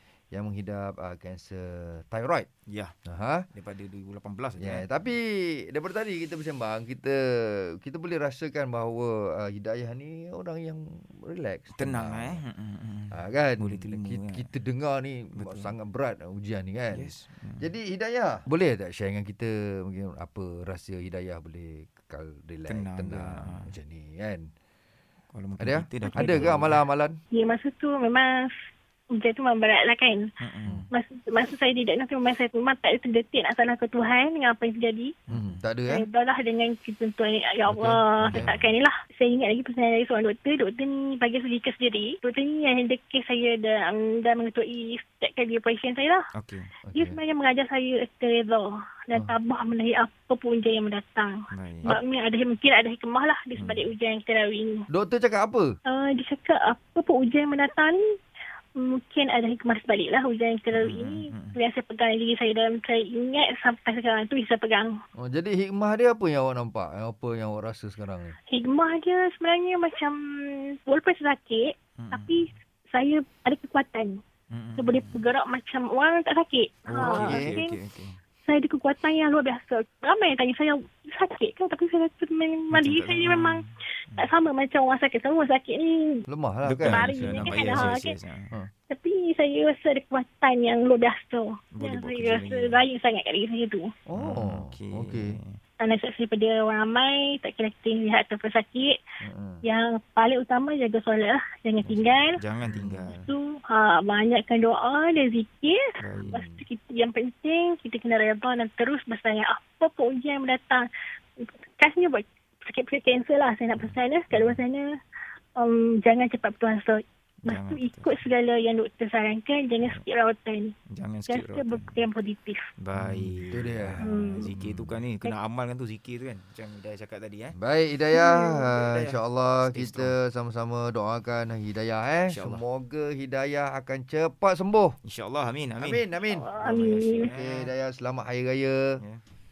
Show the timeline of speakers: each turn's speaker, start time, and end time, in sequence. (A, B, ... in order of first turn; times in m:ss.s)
0:00.3-0:02.5 A
0:02.7-0:03.0 B
0:03.0-0:03.5 A
0:03.5-0:04.9 B
0:04.6-0:12.4 A
0:11.8-0:14.5 B
0:13.1-0:24.5 A
0:15.3-0:15.7 B
0:16.9-0:17.7 B
0:22.7-0:23.7 B
0:25.3-0:26.8 B
0:25.6-0:27.2 A
0:26.1-0:26.6 C
0:27.3-0:28.3 C
0:29.2-0:30.3 C
0:30.4-0:30.9 B
0:30.9-0:35.1 C
0:35.3-0:35.6 B
0:35.3-0:36.0 A
0:35.9-0:46.2 C
0:37.7-0:38.7 A
0:38.2-0:38.6 B
0:46.4-0:46.7 B
0:46.8-0:47.2 A
0:46.9-0:51.3 C
0:51.5-0:52.0 B
0:51.8-0:54.8 C
0:53.6-0:53.9 B
0:54.9-0:55.7 A
0:55.9-0:58.0 C
0:58.8-1:04.9 C
1:00.7-1:01.6 B
1:05.2-1:08.3 A
1:08.5-1:14.2 C
1:12.0-1:12.5 B
1:14.5-1:15.2 B
1:14.8-1:17.8 C
1:16.9-1:18.2 B
1:17.0-1:17.6 A
1:18.4-1:23.6 C
1:22.7-1:24.3 B
1:24.2-1:26.2 C
1:26.3-1:28.0 A
1:26.6-1:28.5 B
1:26.9-1:28.2 C
1:28.9-1:33.9 C
1:31.7-1:32.8 B
1:34.1-1:35.4 A
1:34.2-1:35.6 B
1:35.8-1:39.0 C
1:39.2-1:39.6 A
1:39.6-1:42.4 C
1:41.8-1:43.3 B
1:42.6-1:43.1 A
1:43.1-1:50.8 C
1:46.0-1:46.4 B
1:46.1-1:46.7 A
1:51.4-1:54.8 C
1:54.3-1:54.6 A
1:55.6-2:00.7 C
1:57.4-1:58.1 B
2:00.9-2:02.0 B
2:01.3-2:02.6 C
2:02.8-2:07.6 B
2:03.0-2:05.0 A
2:04.0-2:04.5 C
2:07.6-2:15.0 A
2:08.1-2:08.7 C
2:08.8-2:10.1 B
2:12.3-2:12.6 B
2:15.0-2:16.0 B
2:15.8-2:19.0 A
2:16.2-2:17.3 C
2:16.6-2:17.7 B